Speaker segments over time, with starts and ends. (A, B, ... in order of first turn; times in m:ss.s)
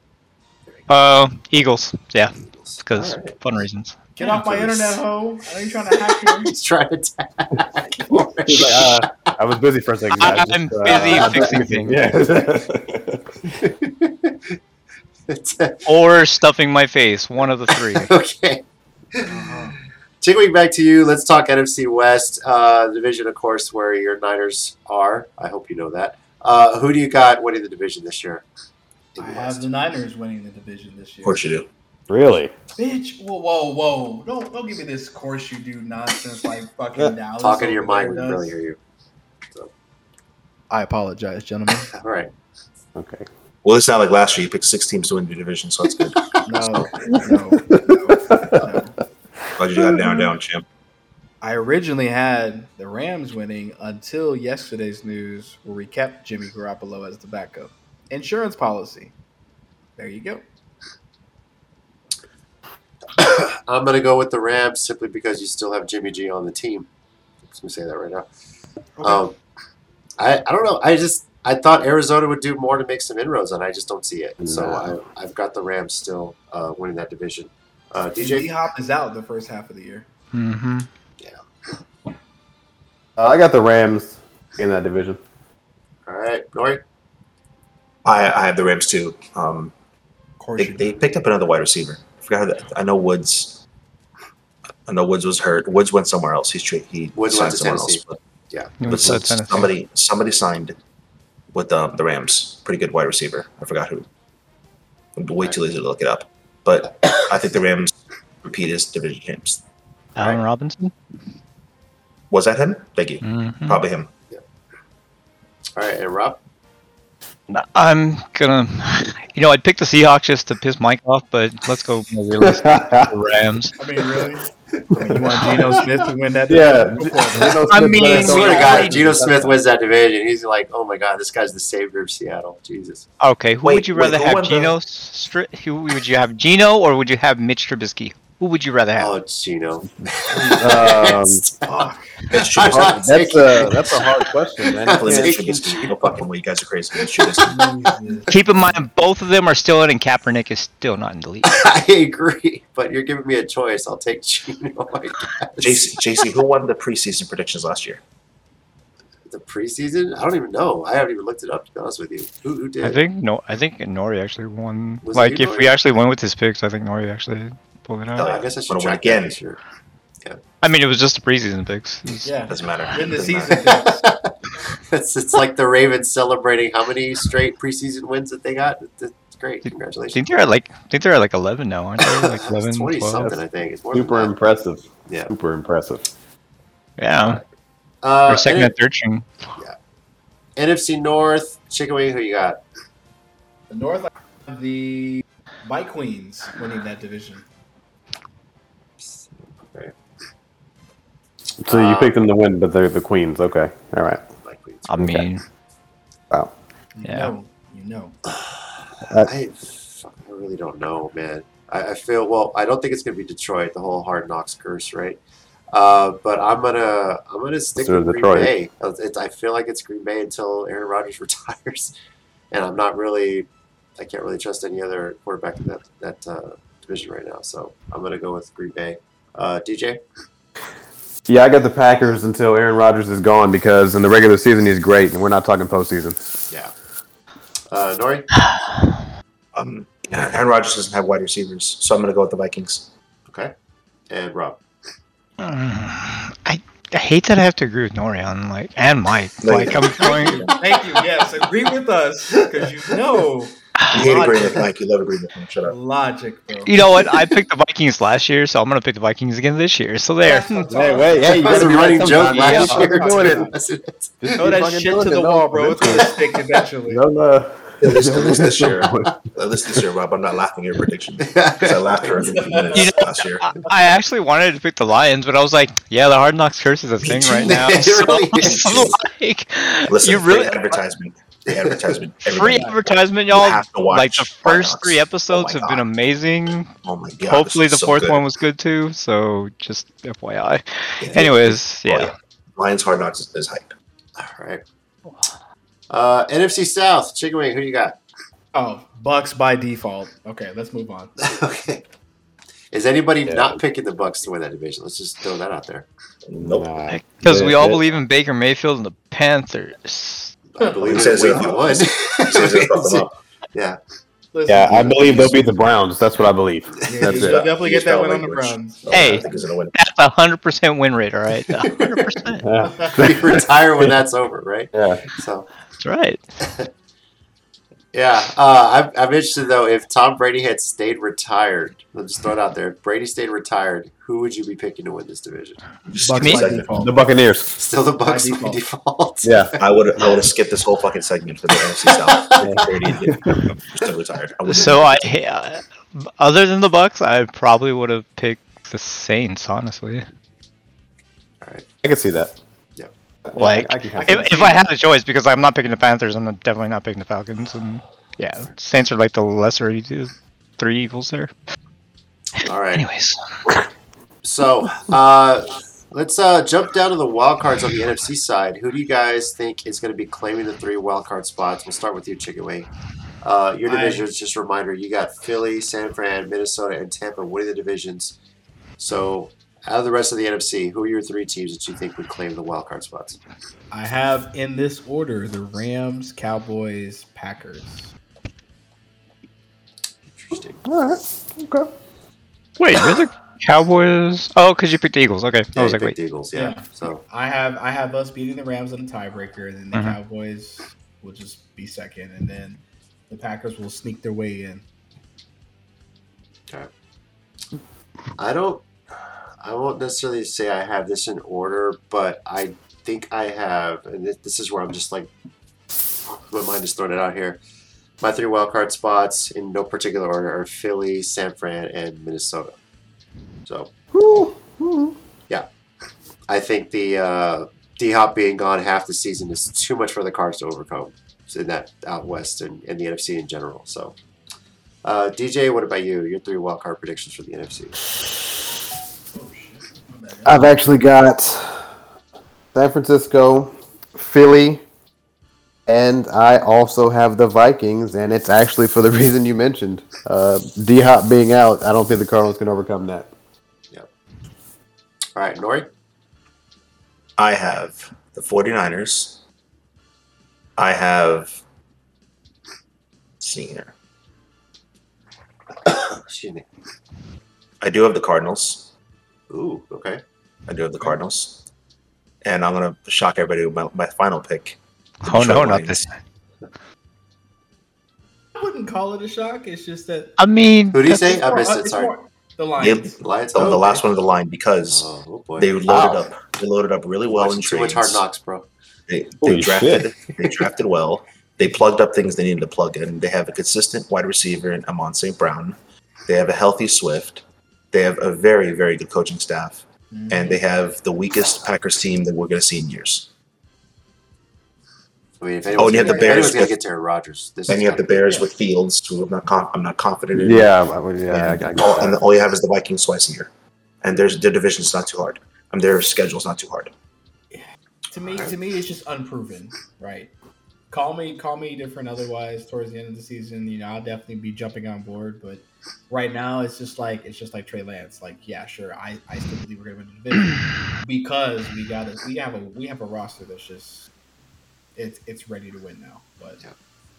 0:00.9-0:04.3 A
0:02.4-0:03.4 B
0:04.2-0:06.6 C
0:04.4-0:05.0 B
0:05.9-0:09.3 B
0:08.1-0:13.4 D
0:10.2-0:12.0 A
0:10.9-0:11.6 B
0:13.6-0:14.6 B
0:15.3-0:15.9 B
0:15.9-0:18.1 A
0:17.7-0:28.4 B
0:19.2-0:19.8 C
0:29.2-0:29.7 B
0:29.2-0:31.5 C
0:31.2-0:31.7 E
0:32.1-0:32.5 D
0:32.8-0:38.5 C
0:37.4-0:38.8 B
0:40.7-0:41.9 C
0:41.9-0:42.3 B
0:43.0-0:43.3 D
0:43.6-0:46.8 E
0:46.5-0:49.0 C
0:47.1-0:48.8 D
0:49.6-0:50.6 E
0:51.4-0:59.1 C
1:00.0-1:00.4 C
1:03.2-1:06.9 B
1:07.5-1:08.3 B
1:09.0-1:09.2 C
1:09.0-1:09.4 B
1:10.2-1:18.5 B
1:14.4-1:14.8 D
1:18.2-1:20.1 C
1:20.3-1:20.9 A
1:23.2-1:25.2 D
1:26.1-1:26.8 B
1:28.0-1:29.7 E
1:30.4-1:31.0 C
1:30.6-1:33.6 E
1:34.9-1:38.2 E
1:37.2-1:38.8 B
1:38.8-1:39.7 A
1:38.8-1:40.8 E
1:41.5-1:44.1 E
1:45.2-1:49.6 E
1:50.2-1:50.9 A
1:52.3-1:54.1 E
1:53.2-1:53.8 A
1:55.8-1:56.4 B
1:57.5-2:03.7 A
2:02.4-2:03.1 D
2:03.8-2:08.6 C
2:06.5-2:09.6 D
2:07.7-2:09.2 A
2:08.1-2:13.1 B
2:13.2-2:19.1 A
2:13.6-2:14.8 E
2:19.0-2:26.2 B
2:20.1-2:21.4 D
2:20.3-2:20.7 C
2:22.3-2:23.0 E
2:22.6-2:25.4 D
2:24.9-2:27.7 E
2:27.0-2:27.4 B
2:27.4-2:28.8 C
2:28.3-2:31.5 A
2:31.5-2:36.2 B
2:35.6-2:38.0 E
2:39.3-2:43.0 B
2:42.8-2:48.3 A
2:45.0-2:45.8 B
2:48.2-2:49.4 E
2:48.2-2:49.6 B
2:50.6-2:52.3 A
2:52.2-2:54.0 C
2:52.5-2:53.6 E
2:53.5-2:54.3 B
2:54.9-3:00.2 B
3:00.1-3:03.2 A
3:02.0-3:04.4 B
3:03.9-3:06.1 D
3:07.0-3:07.4 A
3:08.0-3:08.7 B
3:08.3-3:09.3 A
3:10.6-3:12.6 B
3:13.7-3:17.4 C
3:19.0-3:19.9 B
3:21.6-3:24.2 D
3:21.7-3:22.2 B
3:24.4-3:25.1 B
3:24.9-3:25.4 A
3:24.9-3:25.3 D
3:26.9-3:28.2 C
3:27.0-3:27.3 A
3:28.3-3:28.6 B
3:29.0-3:29.3 D
3:29.2-3:35.2 B
3:35.7-3:41.9 B
3:37.8-3:38.5 D
3:42.5-3:43.5 B
3:44.0-3:50.0 B
3:51.3-3:56.3 D
3:57.7-3:58.3 B
3:58.4-3:59.0 A
3:59.5-4:02.9 E
4:04.1-4:04.6 B
4:05.4-4:10.5 A
4:09.4-4:10.6 E
4:10.0-4:14.7 C
4:13.8-4:14.1 A
4:13.9-4:15.8 E
4:15.6-4:16.7 C
4:16.7-4:20.7 A
4:20.2-4:23.5 C
4:20.7-4:23.5 D
4:21.2-4:24.1 B
4:22.3-4:22.8 A
4:24.2-4:26.2 D
4:24.4-4:27.0 C
4:26.9-4:29.2 D
4:27.8-4:33.5 E
4:31.2-4:32.4 B
4:32.3-4:32.8 C
4:32.7-4:40.8 A
4:37.0-4:37.7 E
4:37.2-4:39.0 B
4:38.4-4:39.0 E
4:39.9-4:45.8 E
4:41.5-4:41.8 B
4:42.2-4:52.1 A
4:46.8-4:48.2 E
4:51.0-4:53.7 E
4:54.2-4:54.6 B
4:55.9-4:58.0 B
4:58.5-5:01.1 C
5:01.2-5:01.8 B
5:02.7-5:05.9 B
5:03.3-5:03.6 D
5:06.3-5:06.7 E
5:06.4-5:07.8 D
5:06.9-5:10.4 A
5:10.5-5:13.8 B
5:10.6-5:10.9 C
5:10.8-5:13.1 E
5:14.3-5:15.5 C
5:14.5-5:17.4 D
5:16.9-5:19.3 C
5:17.0-5:19.7 E
5:18.9-5:22.5 A
5:21.6-5:22.0 B
5:22.4-5:23.9 D
5:22.7-5:23.1 C
5:23.0-5:25.5 B
5:24.7-5:25.0 D
5:25.8-5:26.2 A
5:27.9-5:35.6 B
5:35.9-5:36.8 E
5:36.0-5:37.0 C
5:36.2-5:36.6 A
5:36.8-5:37.6 D
5:37.6-5:40.2 B
5:38.0-5:38.6 C
5:39.2-5:39.5 D
5:39.6-5:45.1 E
5:42.4-5:43.4 D
5:44.5-5:50.0 A
5:51.8-5:52.3 D
5:53.3-5:54.6 D
5:53.4-6:01.3 A
6:02.4-6:02.8 B
6:02.4-6:03.2 A
6:04.2-6:12.7 B
6:13.2-6:18.2 B
6:13.7-6:14.0 C
6:18.8-6:23.2 B
6:23.7-6:27.9 C
6:30.1-6:30.6 B
6:30.6-6:31.7 D
6:32.6-6:36.0 A
6:35.6-6:37.0 B
6:36.3-6:44.6 C
6:48.2-6:48.6 B
6:49.4-6:55.1 B
6:56.3-6:57.4 B
6:58.0-7:02.5 B
7:03.4-7:04.2 B
7:03.9-7:05.0 D
7:06.3-7:14.0 B
7:14.8-7:17.8 B
7:19.1-7:20.5 C
7:20.2-7:21.7 D
7:22.5-7:24.6 D
7:25.7-7:33.1 D
7:35.2-7:35.7 B
7:37.2-7:39.2 E
7:40.6-7:41.4 E
7:43.2-7:43.7 E
7:45.6-7:46.4 B
7:47.6-7:48.7 E
7:49.3-7:50.0 B
7:50.5-7:51.4 E
7:52.2-7:55.8 E
7:55.0-7:55.9 A
7:58.4-8:00.1 C
8:00.2-8:01.2 A
8:00.7-8:01.9 B
8:00.9-8:03.0 C
8:02.6-8:08.0 E
8:03.0-8:03.8 B
8:04.7-8:05.5 B
8:05.7-8:06.0 D
8:07.1-8:08.5 B
8:08.9-8:23.1 E
8:09.2-8:09.9 D
8:19.9-8:20.4 C
8:25.2-8:28.0 B
8:25.5-8:26.5 E
8:25.7-8:26.2 C
8:27.5-8:30.5 E
8:30.2-8:32.0 D
8:31.1-8:33.3 E
8:33.8-8:36.7 E
8:37.3-8:40.1 C
8:40.7-8:53.9 C
8:54.8-8:56.4 C